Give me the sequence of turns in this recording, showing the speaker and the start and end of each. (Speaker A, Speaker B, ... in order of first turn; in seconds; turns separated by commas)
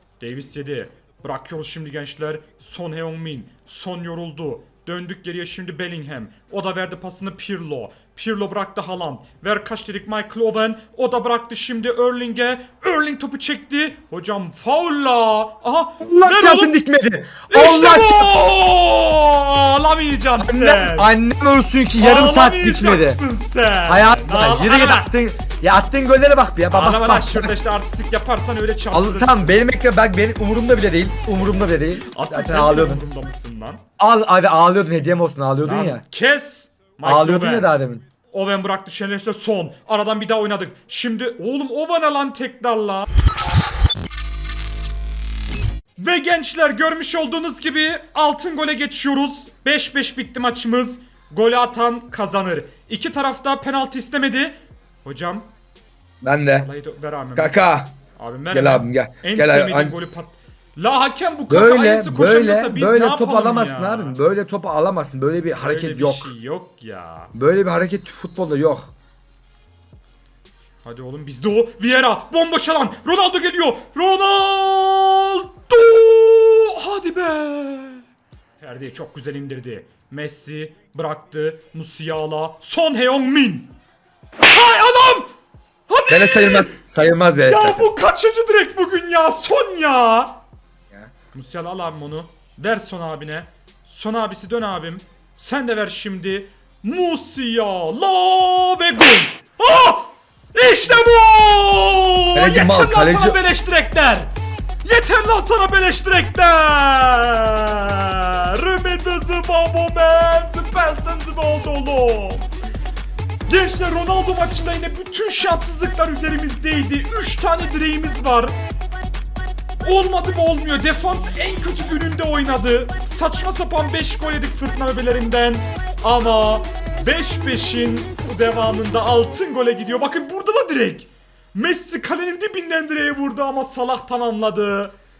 Speaker A: 0.2-16.8, Speaker B: 16.0-18.4, Speaker A: 17.5-21.1, Speaker B: 20.4-23.2, Speaker A: 22.0-25.1, Speaker B: 23.9-27.5, Speaker A: 26.7-29.6, Speaker B: 28.9-33.0, Speaker A: 32.0-33.8, Speaker B: 34.0-36.0, Speaker A: 35.6-37.7, Speaker B: 37.0-38.0, Speaker A: 38.3-43.1, Speaker A: 46.0-55.5, Speaker B: 56.2-56.7, Speaker A: 56.5-57.6, Speaker B: 57.4-58.0, Speaker A: 58.1-64.2, Speaker B: 58.5-60.0, Speaker B: 61.5-66.3, Speaker A: 65.6-67.3, Speaker B: 67.3-68.9, Speaker A: 70.8-78.0, Speaker A: 78.6-83.8, Speaker A: 84.4-85.3, Speaker A: 85.9-86.8, Speaker B: 86.1-87.9, Speaker A: 87.5-90.4, Speaker A: 91.3-104.3, Speaker B: 102.3-103.4, Speaker A: 104.8-112.5, Speaker A: 113.5-118.6, Speaker A: 119.8-134.9